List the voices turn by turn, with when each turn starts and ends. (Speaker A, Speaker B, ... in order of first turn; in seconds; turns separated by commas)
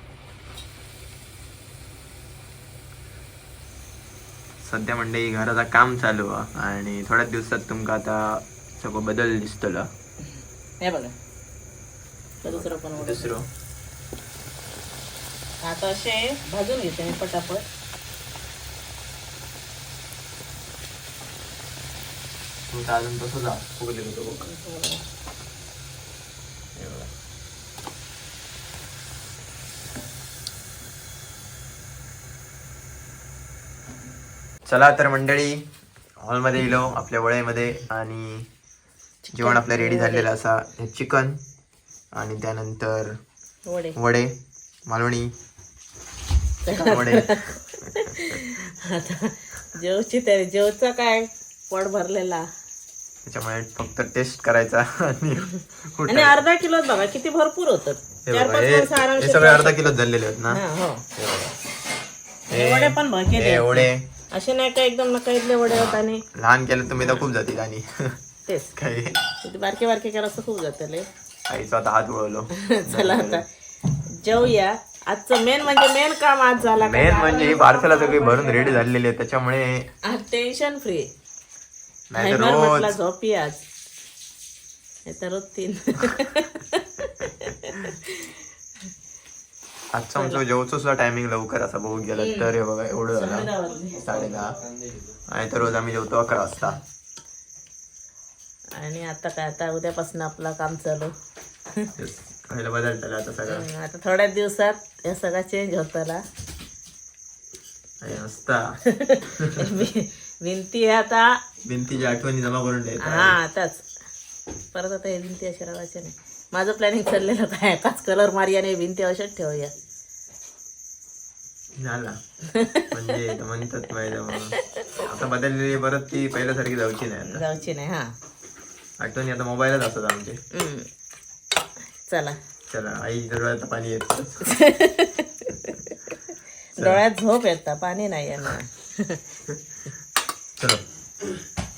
Speaker A: 4.6-9.9, Speaker B: 10.8-11.1, Speaker B: 12.4-13.3, Speaker A: 12.4-13.4, Speaker B: 15.6-17.6, Speaker A: 22.7-24.4, Speaker B: 24.4-25.0, Speaker A: 26.8-27.1, Speaker A: 34.7-35.6, Speaker A: 36.2-38.5, Speaker B: 39.2-40.3, Speaker A: 39.3-41.4, Speaker A: 42.1-43.2, Speaker B: 43.6-44.0, Speaker A: 44.0-45.3, Speaker B: 46.6-52.5, Speaker A: 46.7-48.4, Speaker A: 53.2-56.4, Speaker B: 56.1-60.0, Speaker A: 58.2-60.6, Speaker B: 60.5-61.0, Speaker A: 61.1-61.5, Speaker A: 62.5-64.0, Speaker B: 62.5-66.2, Speaker A: 66.3-68.1, Speaker B: 67.0-67.2, Speaker B: 68.5-68.7, Speaker A: 68.7-69.2, Speaker B: 69.4-71.1, Speaker A: 71.5-73.4, Speaker B: 72.5-73.4, Speaker B: 74.2-78.8, Speaker A: 76.8-79.9, Speaker B: 80.0-81.1, Speaker A: 82.1-83.0, Speaker B: 82.2-83.6, Speaker B: 85.0-88.4, Speaker A: 89.9-94.6, Speaker B: 92.1-92.6, Speaker B: 93.1-94.1, Speaker A: 95.3-96.8, Speaker B: 98.8-101.1, Speaker A: 102.0-103.7, Speaker B: 103.5-106.2, Speaker A: 108.0-109.8, Speaker B: 108.8-111.4, Speaker A: 111.6-113.4, Speaker B: 113.0-113.8, Speaker B: 114.7-119.7, Speaker A: 121.8-122.2, Speaker B: 122.5-123.1, Speaker A: 122.9-127.4, Speaker B: 124.3-125.0, Speaker B: 127.2-128.1, Speaker A: 129.0-130.4, Speaker B: 130.5-130.9, Speaker B: 132.1-132.4, Speaker A: 132.7-134.5, Speaker B: 134.4-136.1, Speaker B: 136.8-139.2, Speaker A: 140.6-140.8